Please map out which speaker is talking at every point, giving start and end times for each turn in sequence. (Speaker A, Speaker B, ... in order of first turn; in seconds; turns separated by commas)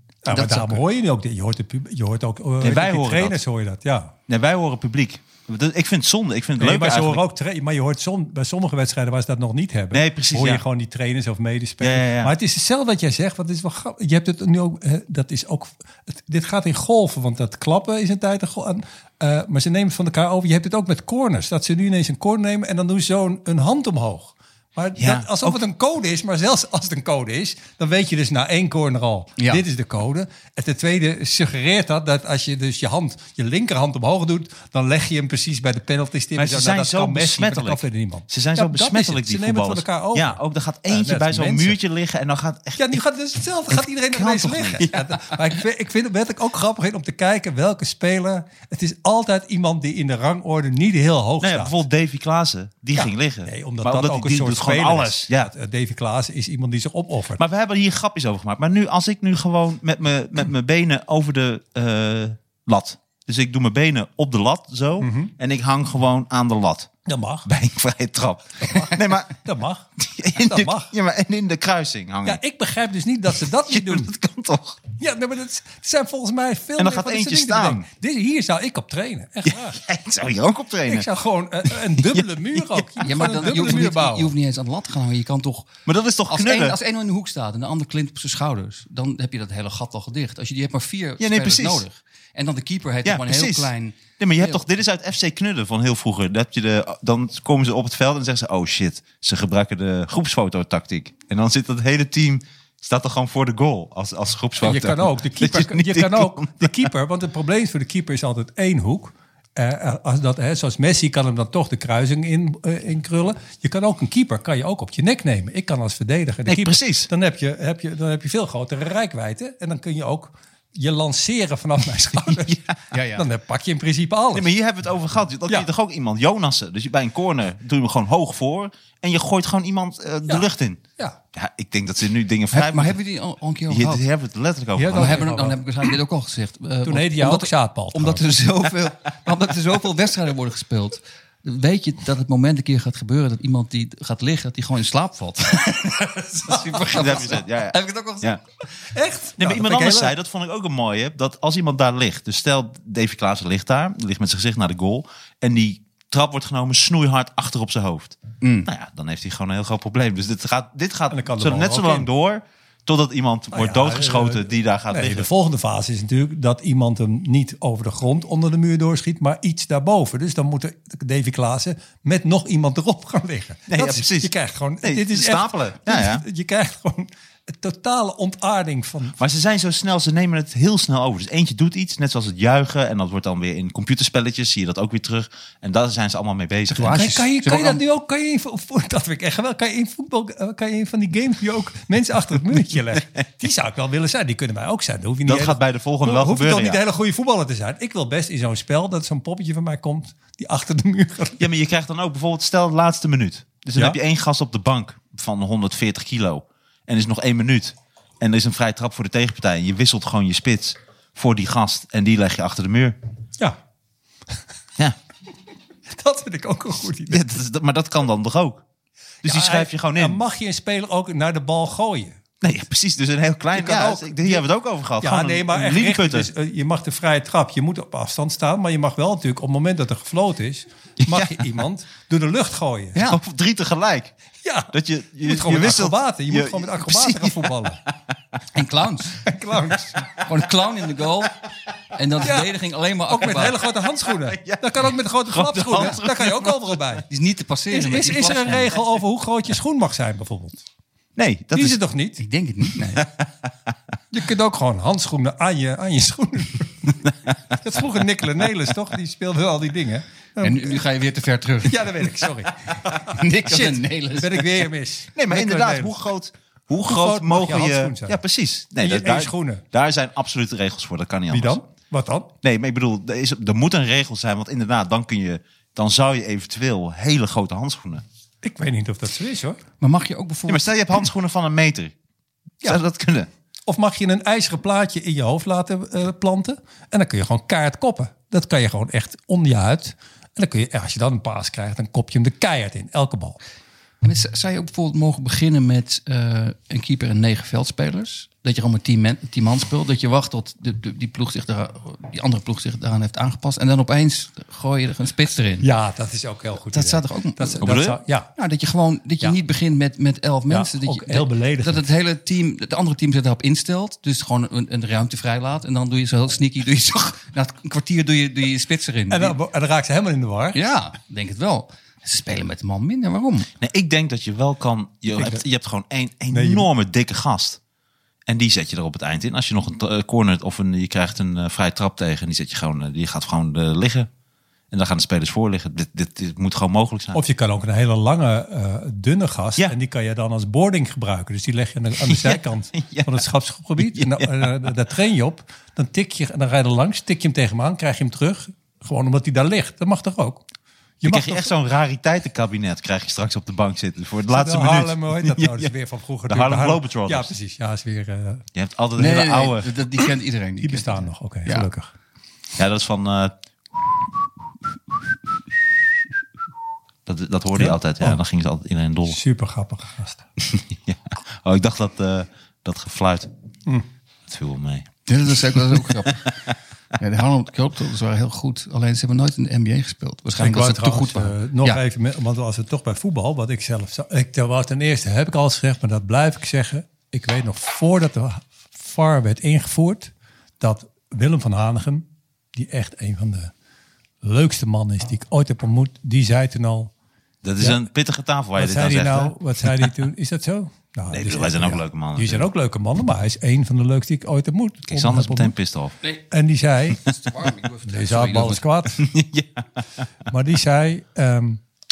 Speaker A: 0.2-4.1, Speaker B: 0.3-0.8, Speaker C: 2.6-3.4, Speaker C: 4.3-7.2, Speaker A: 6.6-41.8, Speaker C: 9.9-10.6, Speaker C: 11.8-12.3, Speaker C: 25.0-25.6, Speaker B: 29.4-29.6, Speaker C: 36.4-43.0, Speaker A: 42.8-51.7, Speaker C: 43.7-45.0, Speaker C: 51.4-55.5, Speaker A: 53.0-57.4, Speaker C: 57.4-66.9, Speaker A: 65.0-65.3, Speaker A: 67.0-67.5, Speaker C: 67.5-69.3, Speaker A: 68.6-70.9, Speaker C: 70.0-72.4, Speaker A: 72.2-74.1, Speaker C: 73.4-74.8, Speaker A: 74.9-79.8, Speaker C: 76.8-77.8, Speaker C: 79.5-81.1, Speaker A: 80.9-84.3, Speaker C: 81.7-83.0, Speaker B: 83.0-85.7, Speaker C: 85.8-86.8, Speaker B: 86.3-94.6, Speaker C: 91.2-91.8, Speaker C: 93.0-106.9, Speaker A: 104.6-122.6, Speaker C: 116.5-117.1, Speaker B: 122.9-123.3, Speaker A: 123.1-124.5, Speaker C: 124.3-130.8, Speaker C: 131.3-133.0, Speaker B: 132.5-134.1, Speaker C: 133.7-135.2, Speaker A: 134.8-135.6, Speaker B: 134.9-148.4, Speaker A: 136.8-138.2, Speaker C: 146.9-148.4, Speaker A: 148.9-150.1, Speaker C: 149.4-165.3, Speaker B: 158.4-158.7, Speaker A: 161.1-162.1, Speaker A: 163.5-179.2, Speaker C: 173.7-176.2, Speaker C: 179.2-187.0, Speaker B: 186.7-187.8, Speaker A: 186.8-201.5, Speaker C: 195.2-196.8, Speaker C: 201.4-213.0, Speaker A: 215.9-217.2, Speaker C: 217.1-218.6, Speaker C: 219.2-220.2, Speaker A: 219.2-222.2, Speaker C: 222.4-226.3, Speaker A: 223.5-224.4, Speaker A: 225.0-233.0, Speaker C: 231.0-231.4, Speaker C: 233.0-234.1, Speaker A: 234.4-237.8, Speaker C: 234.7-237.9, Speaker B: 238.5-239.2, Speaker A: 239.2-240.0, Speaker B: 240.2-241.3, Speaker B: 241.9-243.6, Speaker A: 242.2-242.5, Speaker A: 243.1-247.0, Speaker C: 244.2-244.6, Speaker C: 245.3-246.8, Speaker B: 247.1-248.8, Speaker A: 247.7-250.6, Speaker C: 251.2-251.8, Speaker A: 251.5-252.2, Speaker B: 252.2-253.1, Speaker C: 252.9-253.2, Speaker A: 254.1-257.1, Speaker A: 257.6-260.8, Speaker B: 260.4-262.2, Speaker A: 261.6-265.9, Speaker B: 263.0-264.5, Speaker C: 265.1-271.6, Speaker A: 266.8-268.2, Speaker A: 268.8-269.6, Speaker A: 271.3-272.3, Speaker C: 272.4-278.0, Speaker A: 278.4-279.6, Speaker B: 279.8-280.7, Speaker C: 280.5-281.9, Speaker C: 282.6-283.3, Speaker A: 283.7-293.4, Speaker B: 294.0-305.7, Speaker A: 305.6-308.3, Speaker B: 306.7-307.7, Speaker C: 307.6-308.0, Speaker B: 308.4-319.4, Speaker A: 310.5-311.8, Speaker A: 319.1-320.7, Speaker B: 320.5-323.5, Speaker C: 323.6-327.6, Speaker A: 325.1-325.4, Speaker A: 326.3-326.7, Speaker C: 328.3-334.1, Speaker C: 334.7-337.2, Speaker A: 337.1-350.4, Speaker C: 342.0-343.1, Speaker C: 343.8-344.7, Speaker A: 351.0-351.5, Speaker C: 351.0-355.7, Speaker A: 354.3-358.4, Speaker C: 356.3-357.3, Speaker C: 358.6-359.7, Speaker B: 359.0-361.7, Speaker A: 360.6-361.9, Speaker C: 362.6-364.0, Speaker C: 367.1-369.2, Speaker A: 367.5-368.2, Speaker A: 369.1-370.2, Speaker C: 370.4-373.3, Speaker C: 374.3-374.9, Speaker B: 375.1-376.2, Speaker C: 375.8-376.5, Speaker B: 377.0-381.8, Speaker A: 380.3-393.5, Speaker A: 394.2-396.9, Speaker C: 397.4-399.9, Speaker A: 398.6-405.5, Speaker C: 401.1-402.5, Speaker C: 404.9-405.9, Speaker A: 406.3-407.0, Speaker B: 407.1-408.6, Speaker A: 407.9-409.0, Speaker C: 409.0-409.8, Speaker A: 410.3-411.6